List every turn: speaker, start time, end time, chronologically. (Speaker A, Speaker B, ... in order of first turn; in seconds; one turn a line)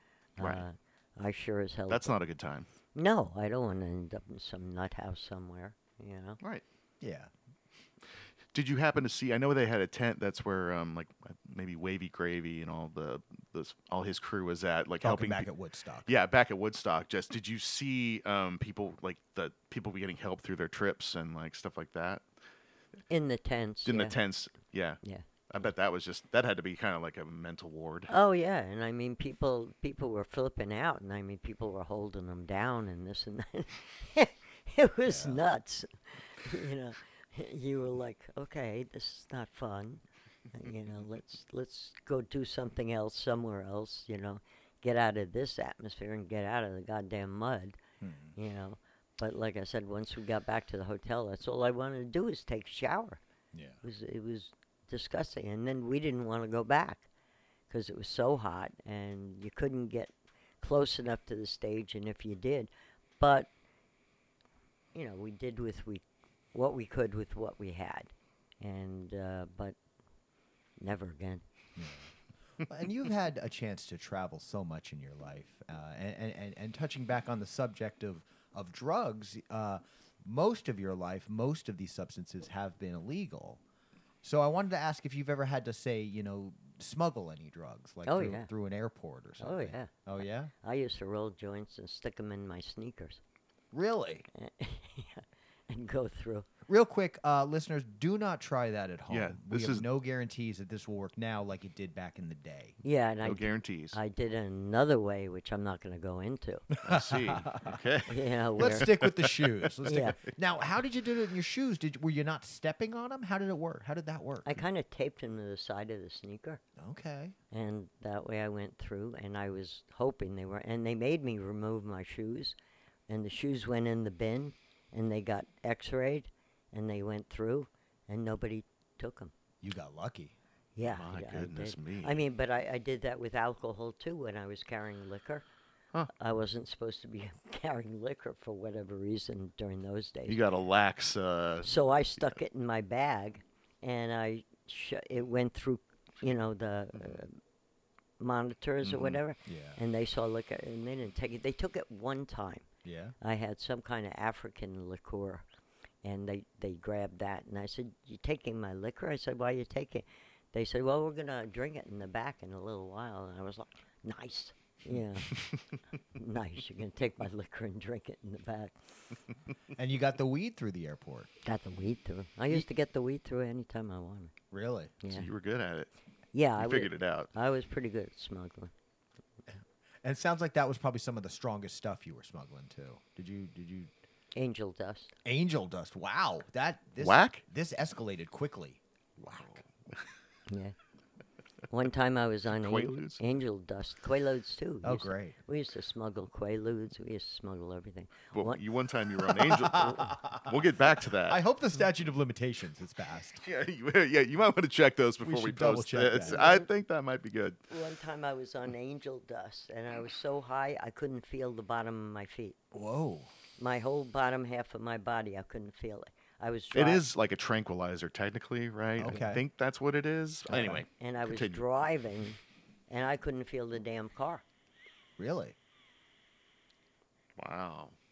Speaker A: 0.4-2.1
Speaker B: 0.4-0.7
Speaker B: 1.9-2.7
Speaker A: 2.9-6.4
Speaker C: 7.0-7.3
Speaker B: 8.5-15.5
Speaker C: 15.0-16.1
Speaker B: 16.1-22.2
Speaker A: 23.1-24.2
Speaker B: 23.9-28.1
Speaker A: 28.1-47.8
Speaker C: 35.1-35.4
Speaker C: 48.0-48.4
Speaker A: 48.4-53.2
Speaker C: 53.5-53.8
Speaker A: 53.8-57.1
Speaker A: 57.7-63.5
Speaker A: 64.9-69.8
Speaker A: 70.8-71.4
Speaker C: 71.8-83.6
Speaker C: 84.2-90.5
Speaker A: 88.1-88.5
Speaker A: 89.4-93.2
Speaker C: 93.7-94.3
Speaker A: 94.3-96.5
Speaker C: 96.7-102.8
Speaker B: 99.1-99.9
Speaker A: 102.8-106.7
Speaker B: 103.2-104.0
Speaker C: 106.7-107.8
Speaker B: 106.8-110.0
Speaker A: 108.1-108.9
Speaker C: 108.6-114.6
Speaker A: 109.8-110.2
Speaker A: 114.5-116.6
Speaker C: 116.8-117.4
Speaker A: 117.5-122.6
Speaker A: 123.1-129.3
Speaker C: 129.6-130.4
Speaker A: 130.8-135.5
Speaker B: 130.8-132.2
Speaker A: 136.1-140.4
Speaker B: 140.3-141.7
Speaker A: 141.6-147.4
Speaker B: 146.9-147.2
Speaker A: 148.2-152.7
Speaker B: 148.8-149.2
Speaker C: 149.5-149.8
Speaker C: 152.8-153.2
Speaker A: 153.2-155.5
Speaker A: 156.0-165.4
Speaker B: 165.3-165.6
Speaker A: 166.2-168.8
Speaker C: 169.8-171.3
Speaker A: 171.4-174.3
Speaker C: 174.5-174.9
Speaker A: 175.0-175.3
Speaker B: 175.0-175.9
Speaker A: 176.3-178.7
Speaker B: 176.6-177.3
Speaker C: 180.0-183.9
Speaker A: 184.3-185.2
Speaker C: 185.2-188.8
Speaker B: 187.0-187.4
Speaker B: 189.2-189.7
Speaker A: 190.5-190.8
Speaker A: 191.7-198.6
Speaker B: 192.5-193.2
Speaker C: 194.8-195.4
Speaker B: 198.3-201.4
Speaker C: 199.4-200.2
Speaker A: 199.6-200.3
Speaker C: 201.2-203.4
Speaker B: 203.4-207.6
Speaker C: 205.2-206.4
Speaker A: 206.2-206.7
Speaker A: 207.7-212.6
Speaker C: 212.7-213.3
Speaker A: 213.6-217.1
Speaker B: 216.7-221.6
Speaker C: 219.0-219.4
Speaker C: 220.5-220.8
Speaker A: 220.7-224.4
Speaker C: 225.2-225.6
Speaker B: 227.4-227.9